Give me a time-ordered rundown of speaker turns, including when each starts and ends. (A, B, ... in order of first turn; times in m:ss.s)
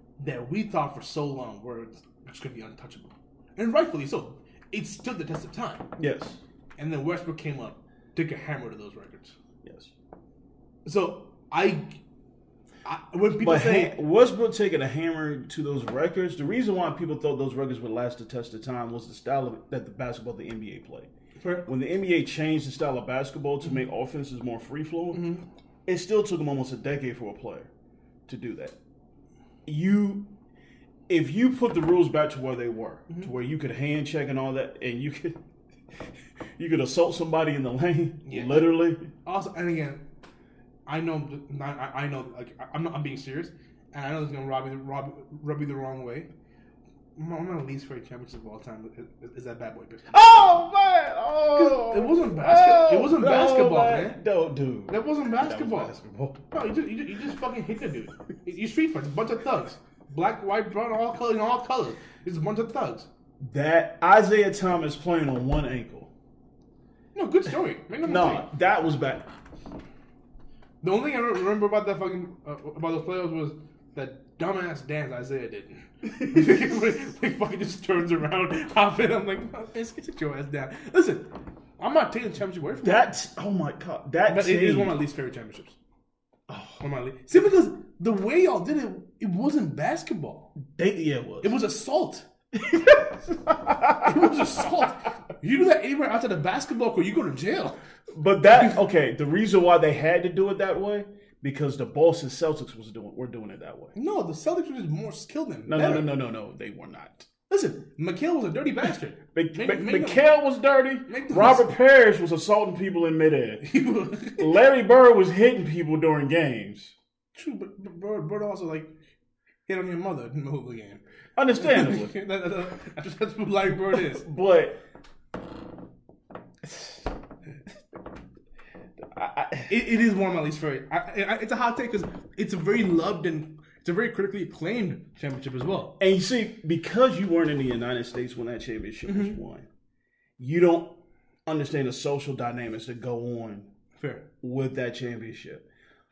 0:00.2-0:05.9 A
0:06.0-0:06.4 B
0:06.8-0:09.4 A
0:09.6-0:09.9 B
0:10.8-0:12.0 A
0:12.8-0:14.0 A
0:13.4-0:21.1 B
0:21.4-0:21.7 A
0:21.6-0:25.3 B
0:25.1-0:25.4 A
0:25.8-0:27.7 B
0:28.3-0:28.8 B
0:29.6-0:30.3 B
0:31.1-0:35.4 B
0:36.6-0:39.0 B
0:38.2-0:38.6 A
0:39.2-0:40.0 A
0:40.8-0:46.3 A
0:47.2-0:50.2 A
0:50.1-0:56.4 B
0:51.5-0:54.2 A
0:54.9-1:03.1 A
1:03.4-1:06.1 B
1:07.1-1:08.5 A
1:08.0-1:09.3 B
1:10.8-1:23.0 A
1:16.1-1:16.8 B
1:22.8-1:24.9 B
1:24.3-1:25.8 A
1:26.5-1:26.8 B
1:26.8-1:30.5 A
1:30.6-1:31.6 B
1:31.4-1:32.3 A
1:32.5-1:34.7 B
1:34.0-1:37.8 A
1:38.1-1:43.9 B
1:43.9-1:46.1 A
1:45.7-1:47.3 B
1:47.5-1:50.2 A
1:49.3-1:53.6 B
1:51.1-1:51.7 A
1:53.6-1:54.5 A
1:54.3-1:56.9 B
1:57.3-1:58.9 A
1:59.7-2:01.0 A
2:01.4-2:02.2 B
2:01.6-2:04.3 A
2:03.9-2:04.8 B
2:06.6-2:07.1 B
2:09.0-2:09.7 B
2:09.7-2:16.0 A
2:16.0-2:19.7 B
2:19.0-2:19.4 A
2:20.4-2:23.7 B
2:24.0-2:24.3 A
2:24.4-2:25.6 B